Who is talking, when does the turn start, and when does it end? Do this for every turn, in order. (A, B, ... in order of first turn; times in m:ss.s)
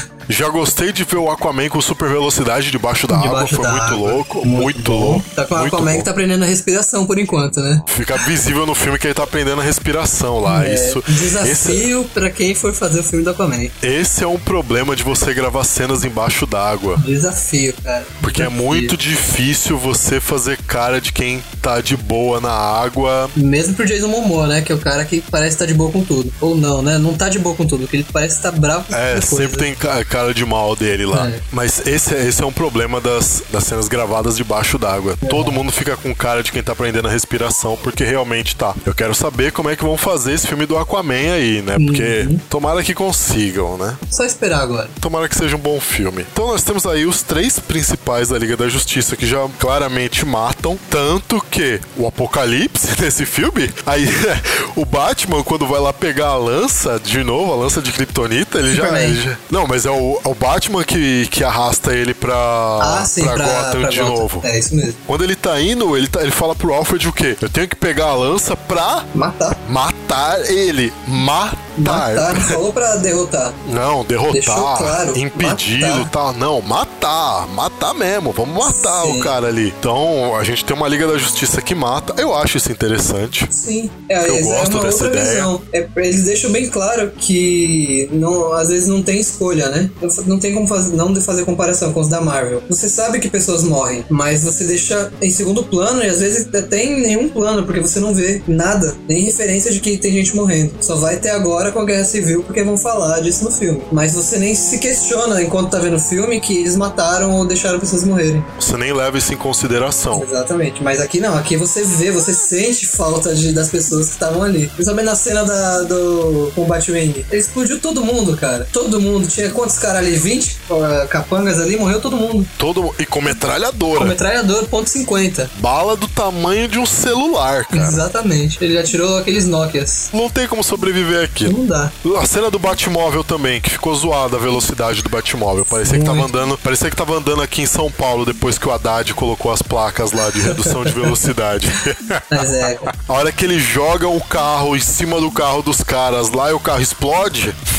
0:00.3-0:06.1 A
0:03.1-0:08.2 B
0:07.9-0:11.8 A
0:10.4-0:13.7 B
0:13.8-0:17.0 A
0:17.0-0:19.0 B
0:18.2-0:23.3 A
0:23.3-0:29.8 B
0:28.9-0:44.0 A
0:31.1-0:31.4 B
0:35.2-0:35.6 B
0:41.8-0:42.4 B
0:44.1-0:44.9 B
0:45.0-1:04.4 A
0:58.7-0:59.2 B
1:02.8-1:05.0 B
1:05.1-1:09.1 A
1:09.1-1:09.6 B
1:09.6-1:12.6 A
1:11.8-1:13.6 B
1:13.6-1:23.5 A
1:14.3-1:16.1 B
1:18.6-1:19.3 B
1:23.5-1:48.5 B
1:24.2-1:25.5 A
1:48.6-1:50.3 A
1:50.1-2:02.5 B
2:02.6-2:04.2 A
2:03.9-2:05.5 B
2:05.5-2:08.0 A
2:07.7-2:10.1 B
2:10.1-2:27.6 A
2:11.4-2:11.9 B
2:15.6-2:16.3 B
2:20.4-2:21.3 B
2:22.3-2:22.9 B